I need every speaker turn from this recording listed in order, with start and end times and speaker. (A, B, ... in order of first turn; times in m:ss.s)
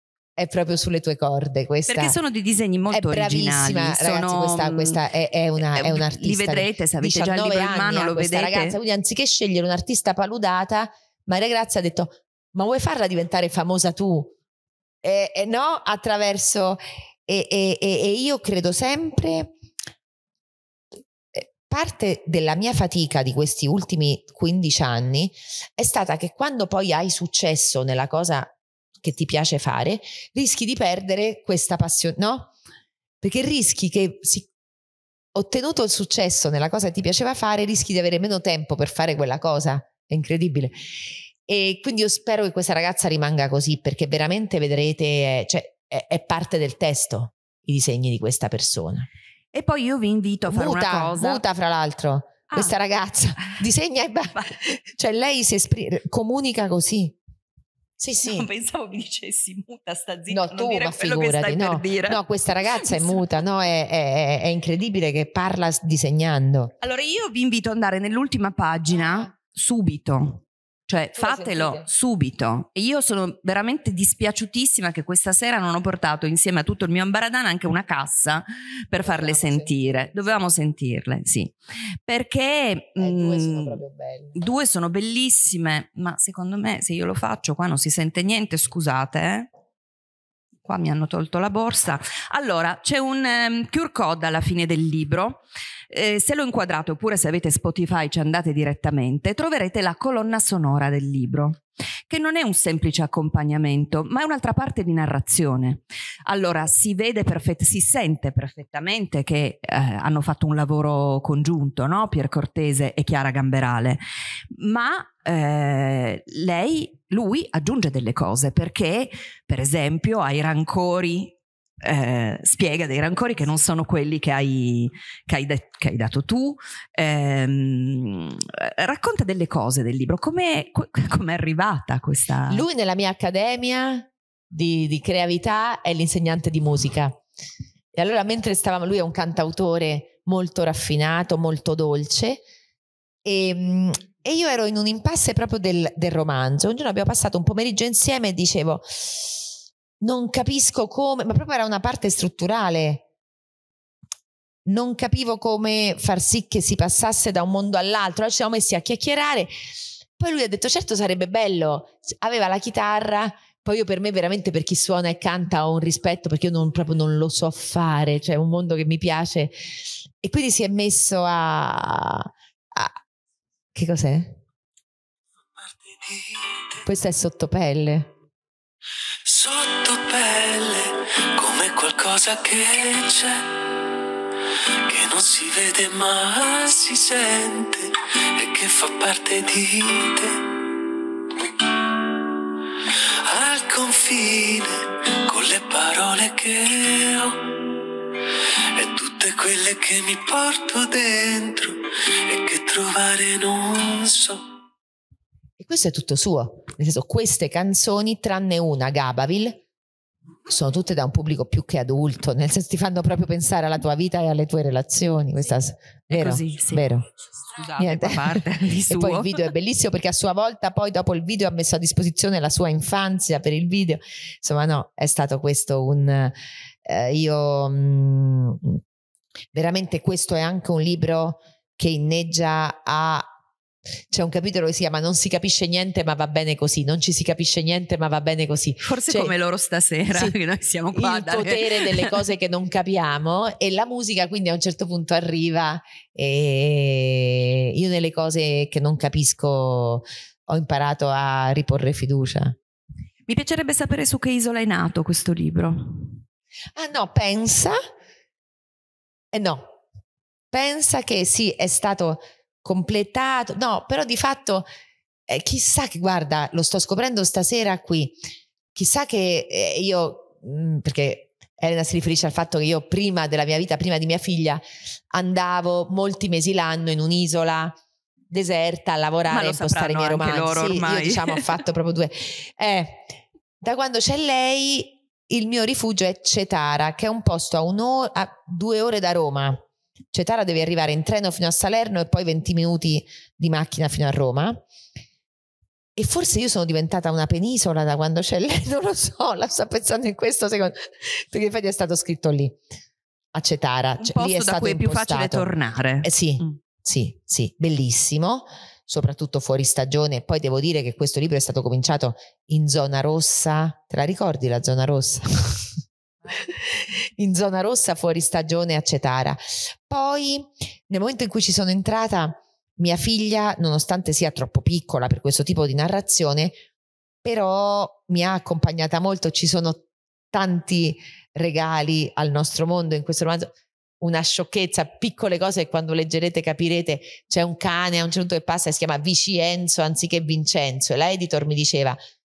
0:00.4-0:02.2 A
0:01.9-0:05.0 B
0:02.9-0:14.3 A
0:05.6-0:08.8 B
0:15.0-0:19.5 A
0:21.3-0:32.5 A
0:33.2-0:34.5 A
0:35.4-0:40.8 A
0:41.4-0:49.1 A
0:49.5-0:51.4 B
0:50.5-0:57.2 A
0:58.0-0:58.5 A
0:58.3-1:03.3 B
1:00.3-1:06.7 A
1:06.8-1:21.6 B
1:11.1-1:11.9 A
1:19.0-1:20.4 A
1:22.1-1:23.8 B
1:23.0-1:24.4 A
1:24.4-1:29.5 B
1:30.6-2:12.6 B
2:12.5-2:17.2 A
2:17.9-2:22.4 A
2:23.2-2:29.5 A
2:30.0-2:33.0 A
2:34.7-2:39.5 A
2:40.2-2:49.6 A
2:50.2-2:53.0 A
2:53.7-2:54.4 A
2:55.6-2:56.8 C
2:56.8-2:58.1 A
2:59.2-3:03.6 C
3:04.9-3:10.6 C
3:11.3-3:12.3 C
3:12.8-3:24.4 C
3:25.6-3:29.6 A
3:30.5-3:37.1 A
3:36.1-3:36.9 B
3:37.5-3:39.4 B
3:37.8-3:48.8 A
3:49.5-3:53.3 A
3:54.1-3:59.3 A
3:58.8-4:02.1 B
4:00.1-4:00.4 A
4:00.9-4:12.6 A
4:13.3-4:16.2 B
4:16.8-4:17.8 A
4:19.3-4:19.8 A
4:20.5-4:24.7 A
4:25.3-4:28.2 A
4:28.8-4:37.8 A
4:38.3-4:54.6 A
4:39.3-4:41.4 B
4:56.0-5:02.6 A
5:03.3-5:05.5 A
5:04.0-5:06.6 B
5:06.0-5:15.7 A
5:16.3-5:26.6 A
5:27.2-5:42.0 A